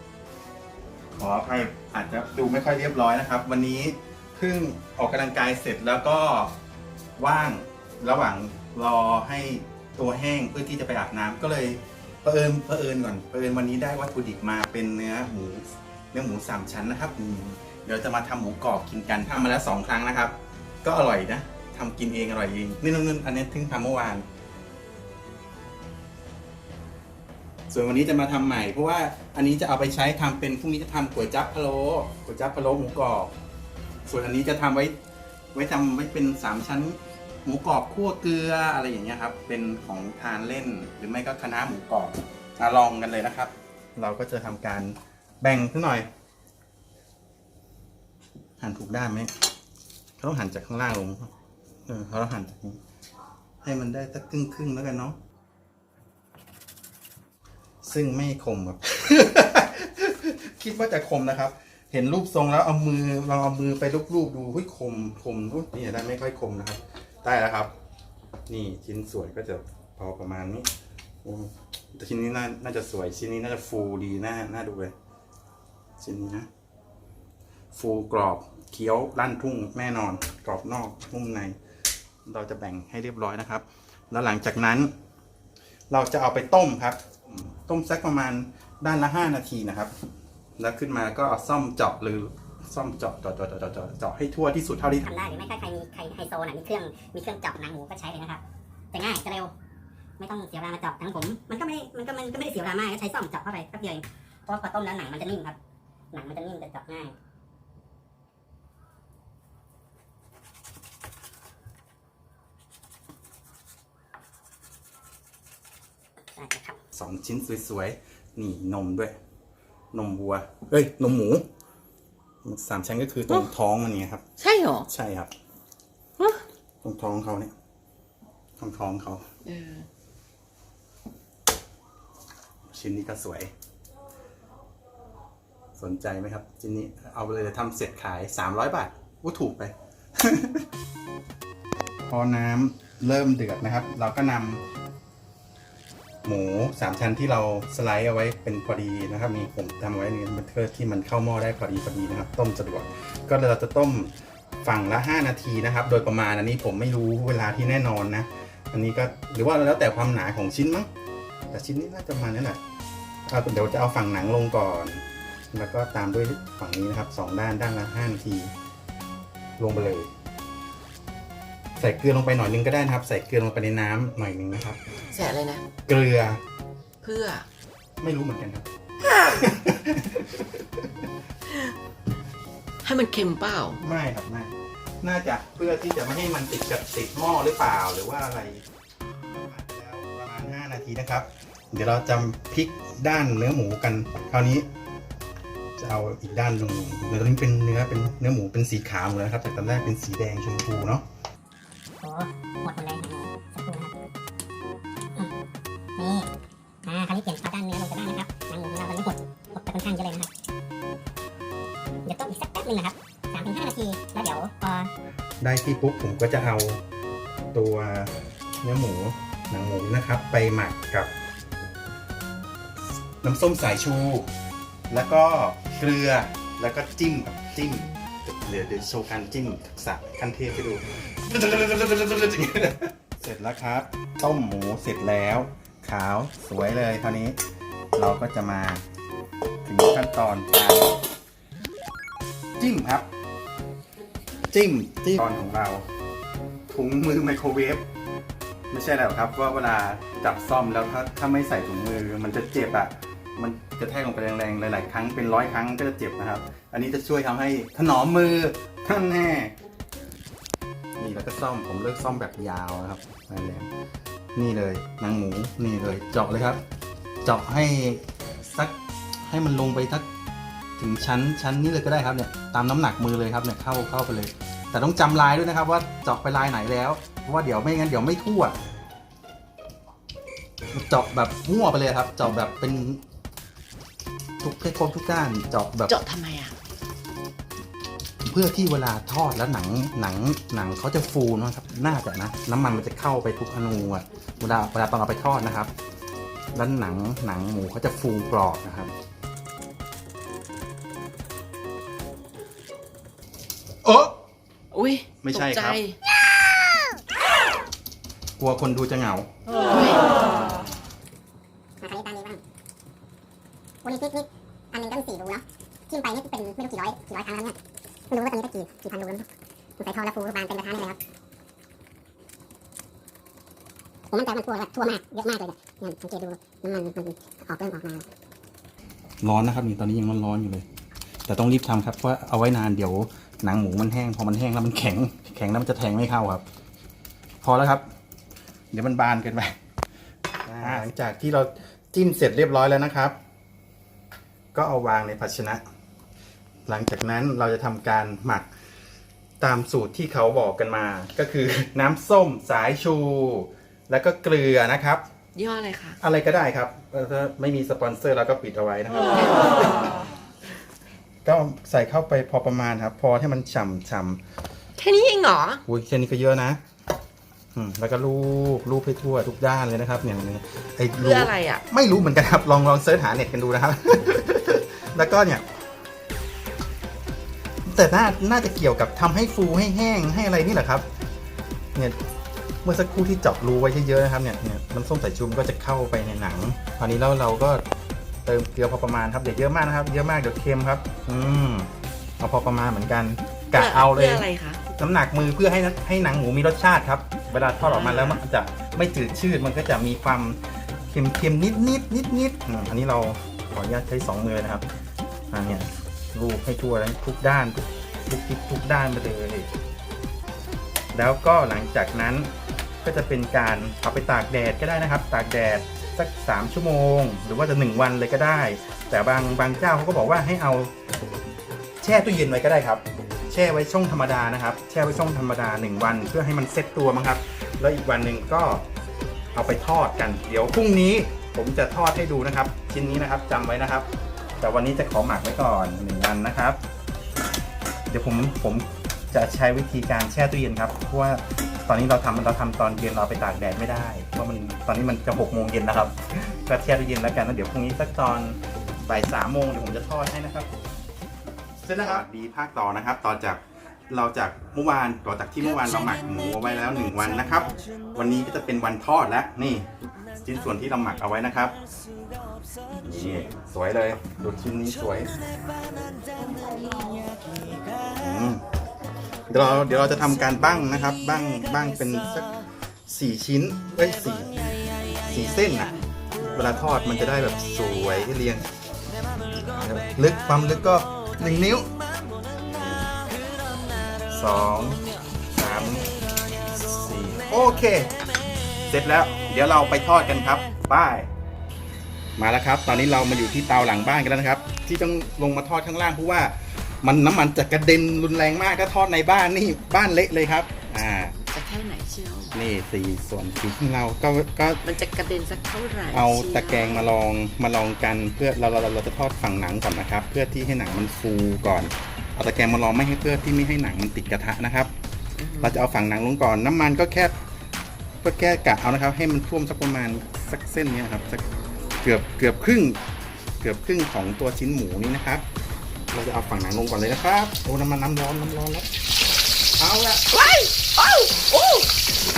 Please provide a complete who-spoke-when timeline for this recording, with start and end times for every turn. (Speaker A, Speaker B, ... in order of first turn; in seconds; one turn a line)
Speaker A: 1.1-6.5
Speaker A: 7.2-24.2
Speaker A: 27.7-33.3
Speaker A: 34.0-34.9
Speaker A: 35.5-46.1
Speaker A: 48.6-49.3
Speaker A: 50.2-51.3
Speaker A: 51.9-52.8
Speaker A: 53.6-55.2
Speaker A: 57.8-67.7
Speaker A: 68.5-70.7
Speaker A: 71.2-74.9
Speaker A: 76.0-76.5
Speaker A: 77.7-81.5
Speaker A: 82.2-84.9
Speaker A: 85.9-89.9
Speaker A: 90.6-95.1
Speaker B: 95.0-98.4
Speaker B: 98.9-99.5
Speaker B: 100.2-105.6
Speaker B: 106.1-107.1
Speaker B: 116.3-116.8
Speaker A: 116.9-119.2
Speaker A: 119.9-121.5
Speaker A: 122.4-124.2
Speaker C: 124.4-124.9
Speaker A: 124.9-125.3
Speaker A: 126.8-127.5
Speaker A: 128.6-129.2
Speaker C: 129.4-129.8
Speaker A: 132.7-133.5
Speaker A: 135.8-140.7
Speaker A: 142.1-144.6
Speaker A: 146.2-160.9
Speaker A: 161.5-162.6
Speaker A: 163.2-168.5
Speaker A: 169.6-170.1
Speaker A: 171.8-174.8
Speaker C: 175.1-175.6
Speaker A: 175.9-176.4
Speaker C: 177.0-177.4
Speaker A: 178.0-178.7
Speaker C: 179.0-179.5
Speaker A: 179.2-180.9
Speaker C: 182.8-183.8
Speaker A: 183.8-188.6
Speaker A: 189.2-194.7
Speaker A: 195.8-201.0
Speaker B: 202.0-203.9
Speaker B: 206.0-206.3
Speaker B: 206.8-210.3
Speaker B: 212.0-214.9
Speaker A: 215.4-216.8
Speaker A: 217.5-221.1
Speaker A: 223.2-224.3
Speaker A: 224.9-237.4
Speaker A: 237.9-238.8
Speaker A: 239.6-240.9
Speaker A: 242.6-243.1
Speaker A: 244.5-245.9
Speaker A: 246.7-247.8
Speaker A: 248.7-259.6
Speaker A: 261.0-263.7
Speaker A: 264.3-266.6
Speaker A: 267.2-270.1
Speaker A: 270.8-278.6
Speaker A: 280.7-283.0
Speaker A: 284.4-285.9
Speaker C: 285.9-286.6
Speaker A: 288.2-295.7
Speaker A: 296.5-298.9
Speaker A: 303.8-304.1
Speaker C: 304.7-306.0
Speaker A: 305.2-305.8
Speaker A: 308.4-309.3
Speaker C: 309.7-310.0
Speaker B: 311.8-312.4
Speaker B: 313.8-317.6
Speaker B: 318.1-319.2
Speaker B: 319.8-321.0
Speaker B: 324.1-328.1
Speaker A: 329.2-330.6
Speaker A: 331.2-336.4
Speaker A: 337.4-337.9
Speaker A: 338.7-339.6
Speaker A: 340.4-343.2
Speaker A: 344.5-345.6
Speaker A: 346.7-348.5
Speaker A: 349.4-355.1
Speaker C: 355.4-356.0
Speaker A: 356.0-360.0
Speaker A: 361.2-364.2
Speaker C: 364.8-365.6
Speaker A: 365.6-366.6
Speaker A: 367.5-375.4
Speaker C: 371.0-371.6
Speaker A: 377.6-380.9
Speaker A: 382.6-387.6
Speaker A: 388.2-404.6
Speaker C: 393.5-394.6
Speaker C: 397.6-398.2
Speaker A: 405.3-409.5
Speaker A: 410.9-412.3
Speaker A: 412.8-420.7
Speaker A: 421.8-428.6
Speaker A: 429.3-433.9
Speaker A: 434.4-436.6
Speaker A: 437.9-450.5
Speaker A: 451.6-459.7
Speaker A: 460.2-461.6
Speaker A: 462.8-465.1
Speaker A: 467.9-468.4
Speaker A: 469.3-472.3
Speaker A: 472.9-474.4
Speaker A: 475.0-475.7
Speaker A: 476.3-478.4
Speaker A: 479.4-481.7
Speaker A: 484.1-485.9
Speaker A: 486.5-487.9
Speaker A: 488.7-491.1
Speaker A: 492.2-501.1
Speaker C: 501.2-502.4
Speaker A: 502.3-504.6
Speaker C: 504.6-506.9
Speaker A: 505.9-514.7
Speaker C: 515.2-515.6
Speaker A: 515.4-517.2
Speaker A: 518.0-521.2
Speaker A: 521.8-522.8
Speaker A: 523.4-525.2
Speaker A: 525.9-528.7
Speaker A: 529.6-530.0
Speaker C: 530.1-531.7